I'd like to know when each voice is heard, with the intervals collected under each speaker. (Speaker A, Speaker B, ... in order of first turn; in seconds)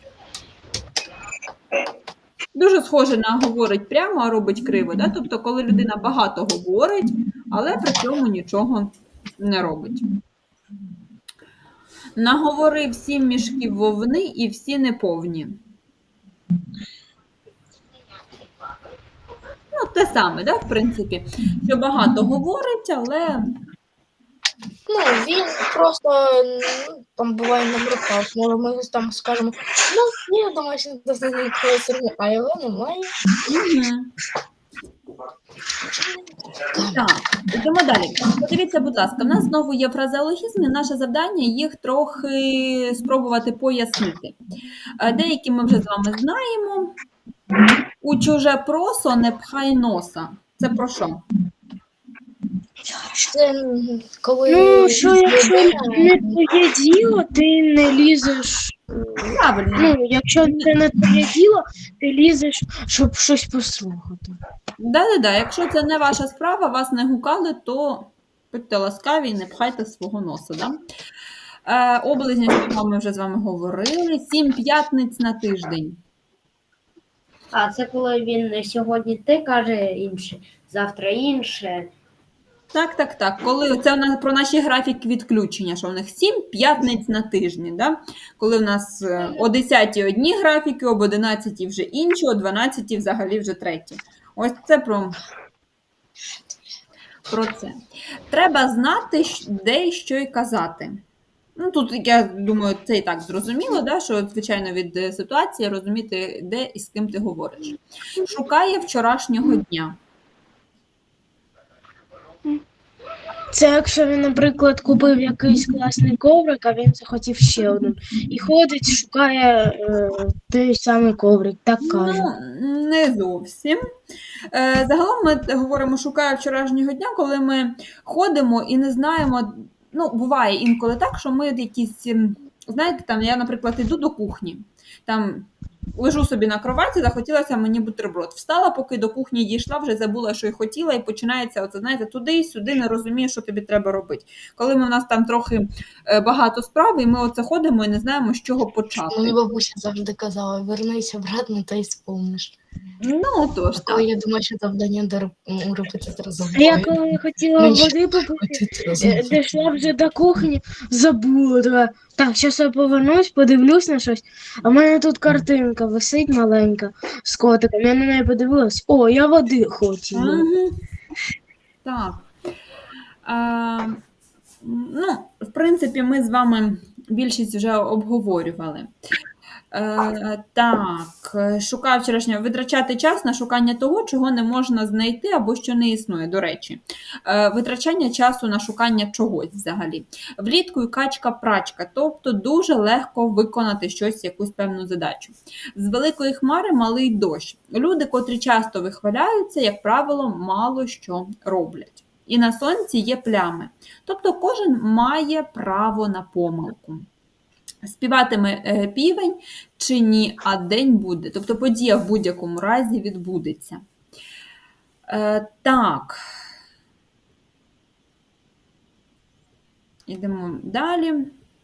Speaker A: 2.5-10.0, 12.2-15.6, 19.7-23.5, 33.5-34.1, 36.9-44.4, 45.0-46.9, 48.0-51.2, 59.2-60.7, 64.8-70.8, 71.7-76.0, 82.7-95.2, 97.3-97.8, 98.3-101.0, 101.5-110.0, 121.8-123.8, 124.5-149.3, 153.0-154.0, 170.1-170.8, 171.8-172.2, 173.2-174.0, 174.6-178.9, 179.7-207.0, 207.8-213.8, 215.1-216.2, 220.1-221.3
Speaker B: 24.9-33.1, 36.7-37.0, 53.3-56.4, 149.1-152.5, 153.9-156.9, 157.6-159.4
Speaker C: 52.9-53.3, 54.5-64.4, 113.5-122.2, 156.5-170.4
Speaker D: 77.5-81.9